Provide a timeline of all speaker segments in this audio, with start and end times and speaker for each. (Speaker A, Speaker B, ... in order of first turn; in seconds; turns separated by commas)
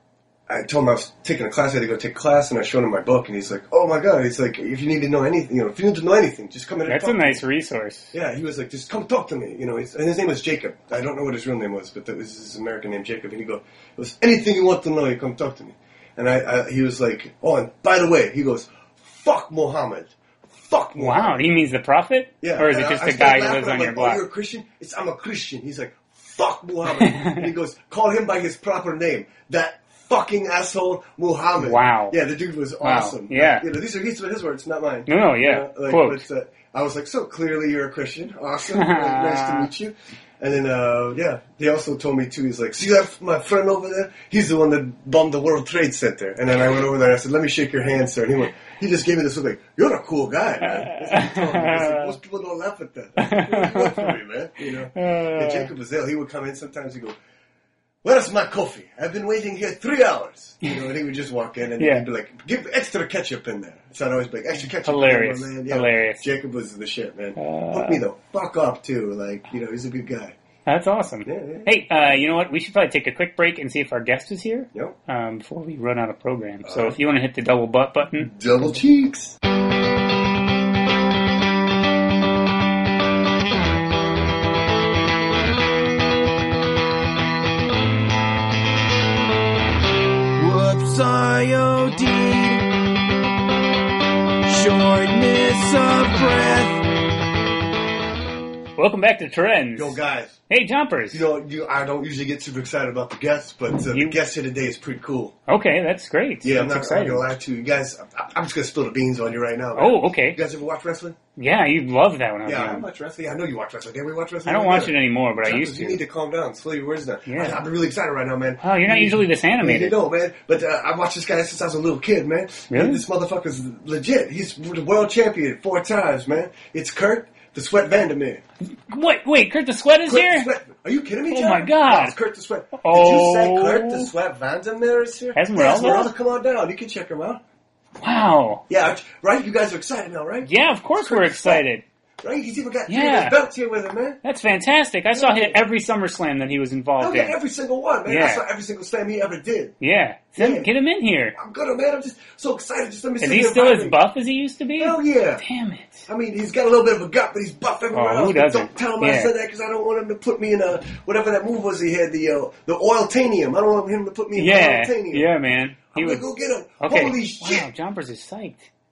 Speaker A: 0.5-7.4, Speaker B: 6.9-8.1, Speaker A: 8.1-21.4, Speaker B: 21.0-24.2, Speaker A: 22.4-57.1, Speaker B: 27.0-27.5, Speaker B: 31.6-32.2, Speaker B: 32.8-33.6, Speaker B: 35.1-36.2, Speaker B: 38.7-39.7, Speaker B: 50.6-52.1, Speaker B: 53.2-54.1, Speaker B: 54.9-55.7, Speaker A: 58.0-70.3, Speaker B: 61.8-62.0, Speaker B: 64.8-66.2, Speaker B: 67.4-68.0, Speaker B: 70.7-78.3, Speaker A: 71.2-71.7, Speaker A: 76.6-77.0, Speaker A: 78.2-79.4, Speaker C: 90.4-92.7, Speaker C: 94.4-96.8, Speaker B: 98.8-100.0, Speaker A: 99.7-100.4, Speaker B: 100.5-101.2, Speaker A: 101.1-105.3, Speaker B: 103.9-104.2, Speaker B: 105.5-107.3, Speaker A: 106.4-111.2, Speaker B: 109.7-110.4, Speaker B: 111.4-112.8, Speaker A: 112.4-128.4, Speaker B: 114.5-116.0, Speaker B: 117.3-117.6, Speaker B: 118.6-120.0, Speaker B: 122.7-123.0, Speaker B: 128.9-130.5, Speaker A: 130.0-137.4, Speaker B: 131.3-132.2, Speaker B: 132.7-134.1, Speaker B: 135.3-136.1, Speaker B: 138.0-138.6, Speaker A: 138.7-141.6, Speaker B: 140.4-141.8, Speaker A: 142.2-144.2, Speaker B: 142.9-143.3, Speaker B: 144.2-147.3, Speaker A: 145.1-145.6, Speaker A: 147.0-149.7, Speaker B: 148.1-148.4, Speaker B: 149.8-151.4, Speaker A: 150.4-150.7, Speaker A: 151.3-154.0, Speaker B: 153.2-156.1, Speaker A: 154.8-155.4, Speaker A: 156.1-165.3, Speaker B: 157.9-159.3, Speaker B: 164.3-166.2, Speaker A: 165.9-167.7, Speaker B: 166.8-168.7